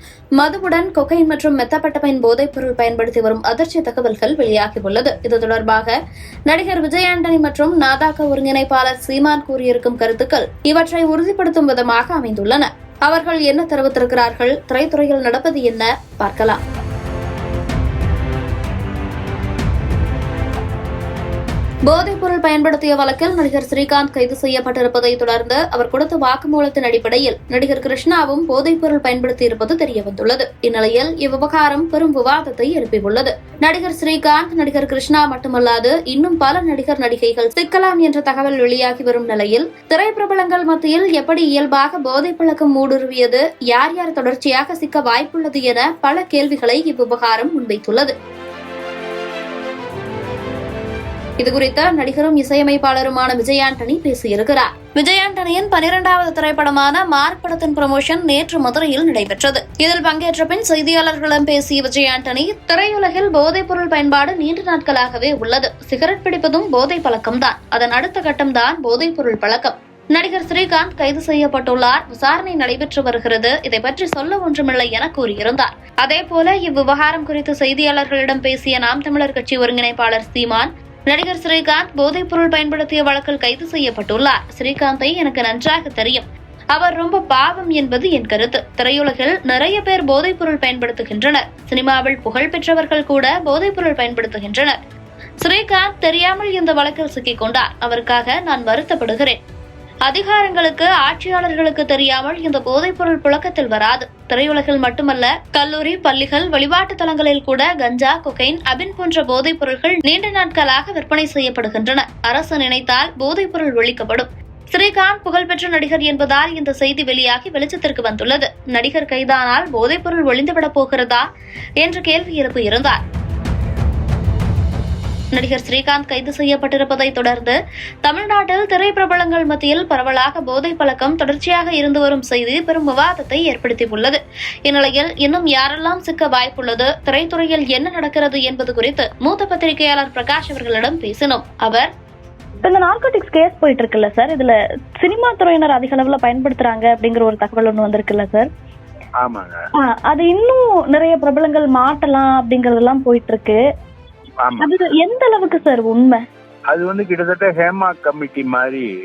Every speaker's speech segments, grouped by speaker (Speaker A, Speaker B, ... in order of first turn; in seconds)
Speaker A: 0.4-5.9, 6.5-16.6, 21.9-48.1, 51.4-94.8, 95.4-99.4, 100.1-121.3, 121.8-123.0, 125.3-141.9
Speaker B: 142.6-148.5, 149.8-153.6, 154.6-156.2
Speaker C: 149.2-149.7, 154.4-154.8, 156.7-158.9